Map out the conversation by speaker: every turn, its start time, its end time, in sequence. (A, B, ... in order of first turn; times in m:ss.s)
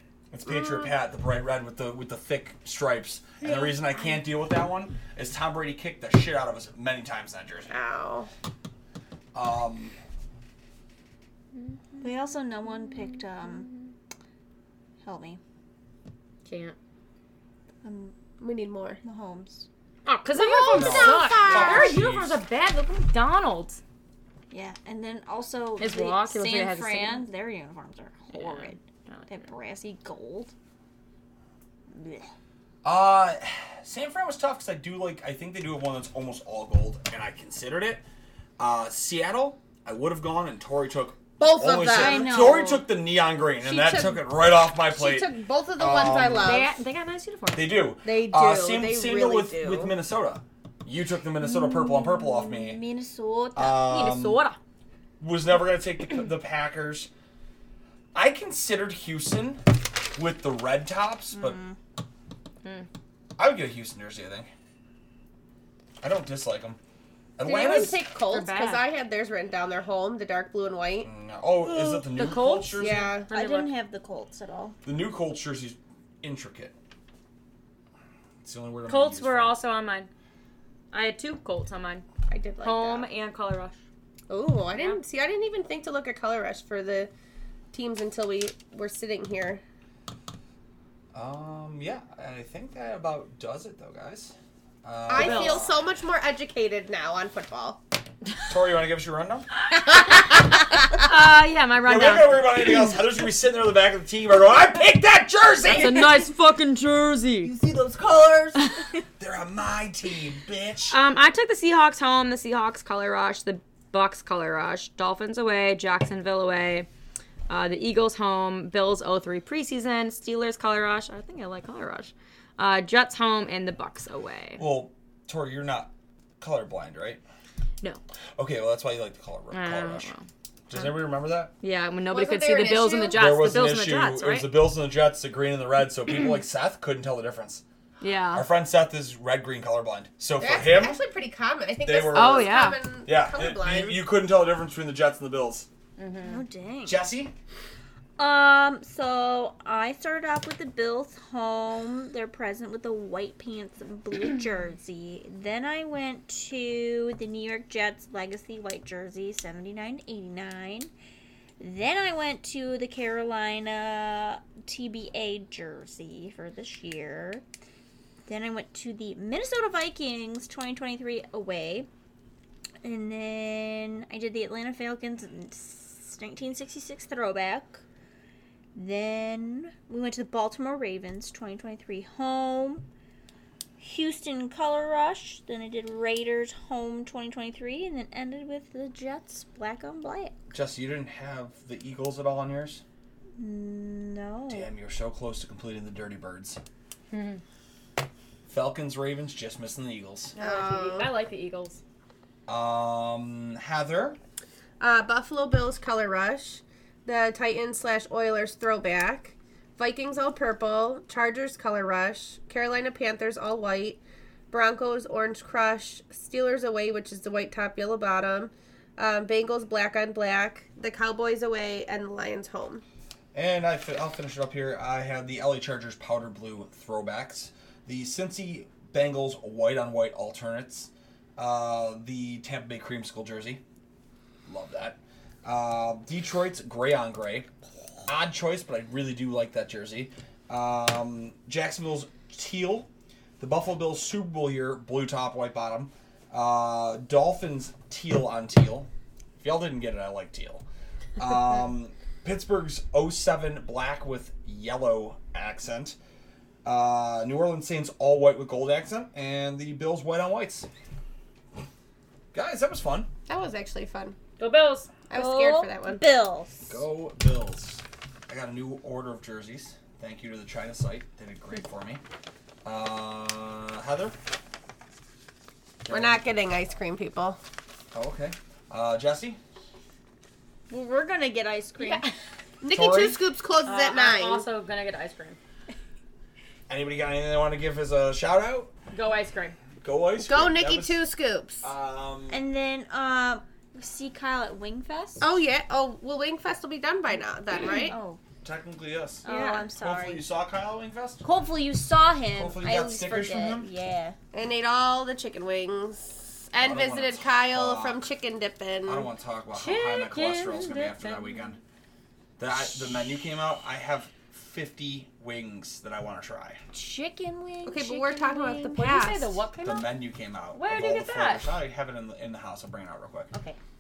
0:00.3-0:07.7 A
0:07.7-0:08.3 B
0:09.3-0:10.0 A
0:12.0-0:13.7 C
0:15.0-0:15.4 C
0:16.4-0:16.8 D
0:17.8-0:18.1 C
0:18.4-0:19.0 B
0:19.0-0:19.6 C
0:20.1-0:23.8 D
0:20.4-0:21.9 B
0:20.6-0:21.8 C
0:20.7-0:22.4 A
0:24.5-0:30.5 C
0:25.8-0:27.3 D
0:28.3-0:29.4 D
0:31.9-0:32.3 C
0:32.8-0:38.0 A
0:38.6-0:46.6 A
0:41.4-0:42.8 B
0:41.8-0:42.9 C
0:43.6-0:46.7 B
0:46.4-0:47.8 D
0:47.5-0:52.8 A
0:48.0-0:49.9 B
0:51.4-0:53.8 C
0:53.6-0:54.4 A
0:53.7-0:54.6 D
0:55.2-0:57.1 A
0:58.1-1:01.6 A
1:01.3-1:01.8 C
1:03.4-1:04.5 A
1:06.0-1:06.8 A
1:07.4-1:08.0 A
1:07.4-1:11.1 B
1:08.3-1:08.9 D
1:11.0-1:13.1 A
1:12.1-1:13.7 D
1:12.8-1:13.3 B
1:13.3-1:14.8 C
1:14.8-1:16.7 A
1:18.4-1:19.6 A
1:18.9-1:20.1 D
1:20.9-1:22.0 D
1:22.3-1:23.1 B
1:22.6-1:23.8 D
1:24.3-1:27.1 B
1:24.7-1:25.0 D
1:27.7-1:29.6 B
1:31.1-1:35.8 A
1:35.1-1:37.8 B
1:35.1-1:35.6 D
1:38.5-1:39.5 A
1:40.7-1:42.9 D
1:41.8-1:46.3 A
1:45.6-1:47.5 D
1:47.4-1:48.6 A
1:49.2-1:51.0 A
1:50.9-1:56.9 D
1:57.5-2:04.6 D
2:04.6-2:07.2 A
2:08.4-2:10.1 A
2:09.5-2:11.0 D
2:10.7-2:11.5 A
2:11.6-2:14.6 D
2:12.1-2:13.4 B
2:13.1-2:17.6 A
2:18.0-2:18.5 D
2:18.3-2:21.0 A
2:20.4-2:24.1 B
2:21.8-2:25.7 A
2:22.1-2:22.8 D
2:26.0-2:26.4 D
2:26.2-2:27.0 C
2:26.8-2:27.3 A
2:28.2-2:40.9 C
2:41.6-2:47.4 C
2:48.2-2:51.9 C
2:52.8-2:57.8 C
2:58.7-3:02.9 C
3:03.8-3:10.4 C
3:10.5-3:12.8 A
3:13.4-3:14.7 C
3:14.5-3:16.6 A
3:17.1-3:17.4 D
3:18.5-3:20.3 A
3:20.3-3:21.8 D
3:20.4-3:21.2 B
3:22.5-3:24.2 A
3:24.8-3:42.8 B
3:43.3-3:53.6 A
3:54.5-3:57.5 A
3:58.0-4:10.6 A
4:11.2-4:16.0 A
4:16.6-4:20.7 A
4:22.3-4:23.1 A
4:23.3-4:24.2 B
4:24.4-4:24.9 D
4:25.1-4:26.0 B
4:25.1-4:26.8 C
4:26.7-4:32.0 A
4:32.6-4:34.2 A
4:35.9-4:36.3 A
4:35.9-4:37.4 B
4:37.9-4:39.4 A
4:40.7-4:42.1 C
4:42.6-4:44.4 B
4:42.7-4:43.2 A
4:43.6-4:45.4 D
4:46.7-4:48.7 A
4:48.9-4:49.6 D
4:49.8-4:51.0 A
4:50.2-4:51.7 B
4:51.6-4:52.4 A
4:52.3-4:55.3 C
4:55.2-4:58.0 B
4:57.6-4:58.2 C
4:58.4-5:01.2 A
4:59.2-4:59.7 D
4:59.2-5:00.2 C
5:01.2-5:04.2 C
5:02.4-5:03.7 A
5:04.3-5:09.1 B
5:06.6-5:08.0 A
5:08.9-5:11.6 A
5:09.5-5:11.5 D
5:12.4-5:16.6 A
5:16.7-5:18.8 C
5:17.6-5:19.5 B
5:18.7-5:19.9 D
5:19.6-5:23.3 A
5:20.5-5:21.5 D
5:23.3-5:23.6 D